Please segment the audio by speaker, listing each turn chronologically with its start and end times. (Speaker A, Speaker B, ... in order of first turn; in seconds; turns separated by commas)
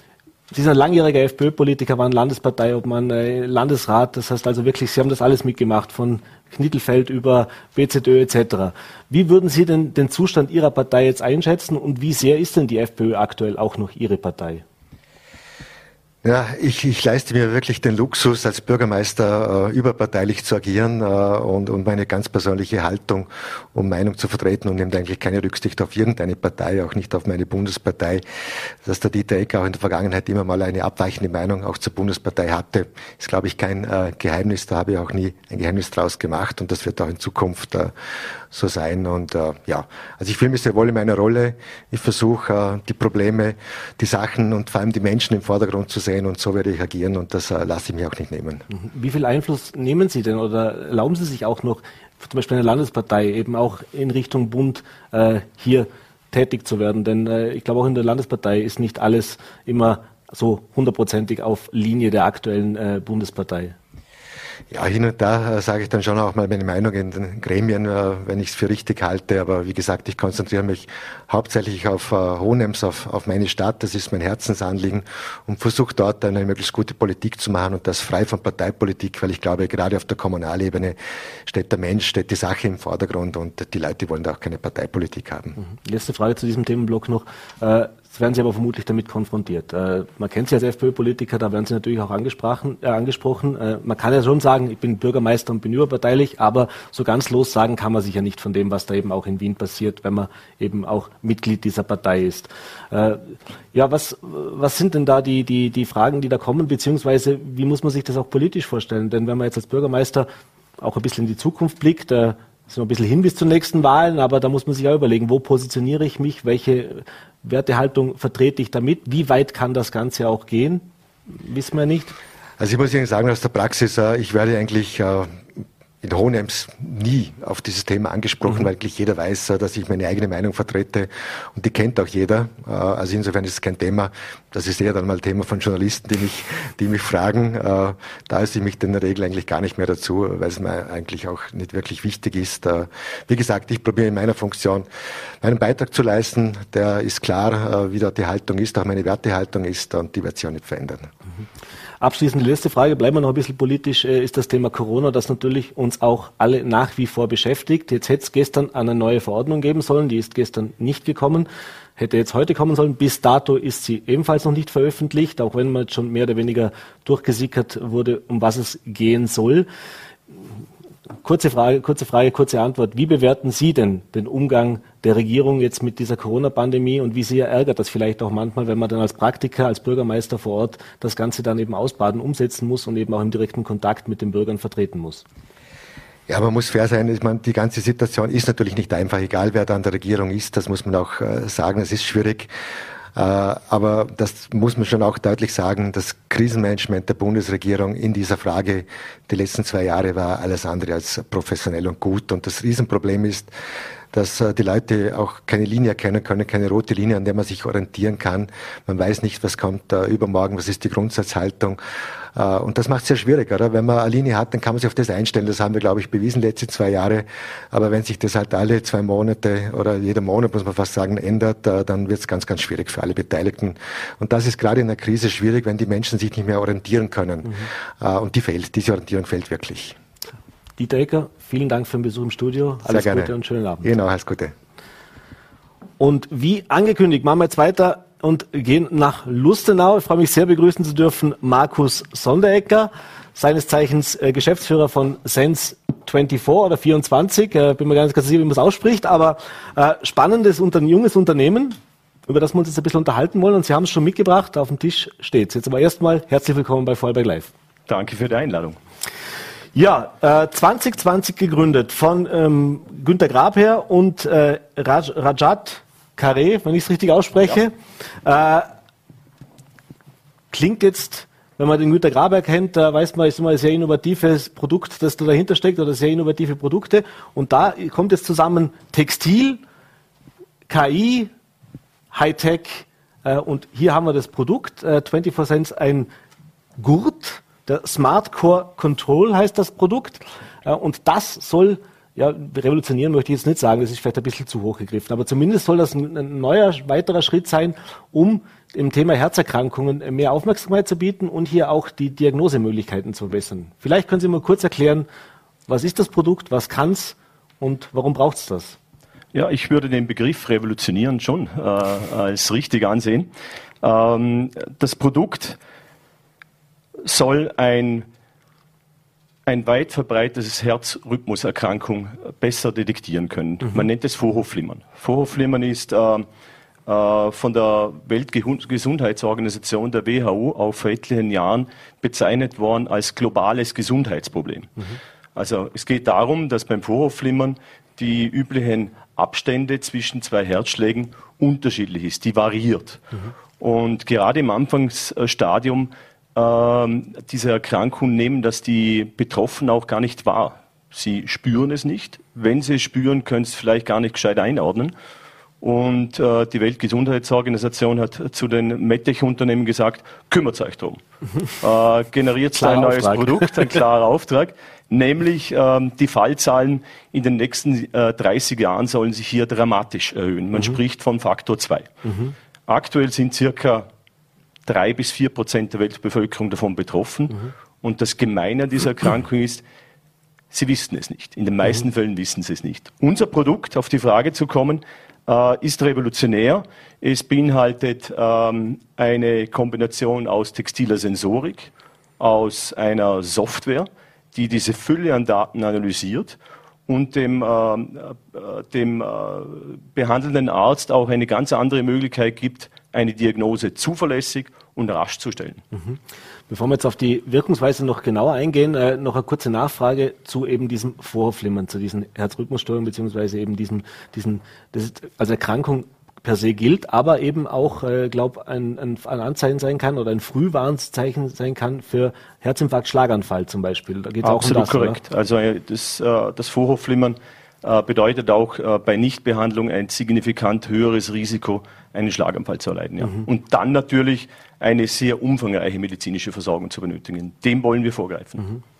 Speaker A: 0.5-14.6, Speaker B: 16.2-28.2, Speaker B: 28.8-37.9, Speaker B: 38.5-48.6, Speaker A: 48.7-63.8, Speaker B: 64.7-85.6, Speaker A: 85.6-122.2, Speaker B: 122.6-125.4, Speaker B: 126.0-144.8, Speaker B: 145.4-151.1, Speaker A: 152.0-169.7, Speaker A: 171.2-185.2, Speaker B: 186.3-192.5, Speaker B: 193.1-203.5, Speaker B: 204.1-211.8, Speaker B: 212.3-230.0, Speaker A: 230.8-233.9, Speaker B: 232.9-234.5, Speaker A: 236.0-257.5, Speaker C: 257.9-258.8, Speaker A: 259.7-268.7, Speaker A: 270.5-279.6, Speaker A: 280.7-281.3, Speaker A: 282.1-286.1, Speaker A: 286.8-305.1, Speaker A: 305.7-308.8, Speaker C: 309.3-313.3, Speaker C: 313.8-315.6, Speaker C: 317.0-318.1, Speaker C: 319.4-326.3, Speaker C: 326.9-334.8, Speaker C: 335.3-354.9, Speaker C: 355.6-361.0, Speaker C: 361.6-371.9, Speaker A: 362.6-363.7, Speaker A: 372.0-372.3, Speaker C: 372.7-373.9, Speaker C: 374.6-379.6, Speaker C: 380.5-396.4, Speaker C: 396.9-405.6, Speaker A: 405.7-425.0, Speaker C: 424.2-438.5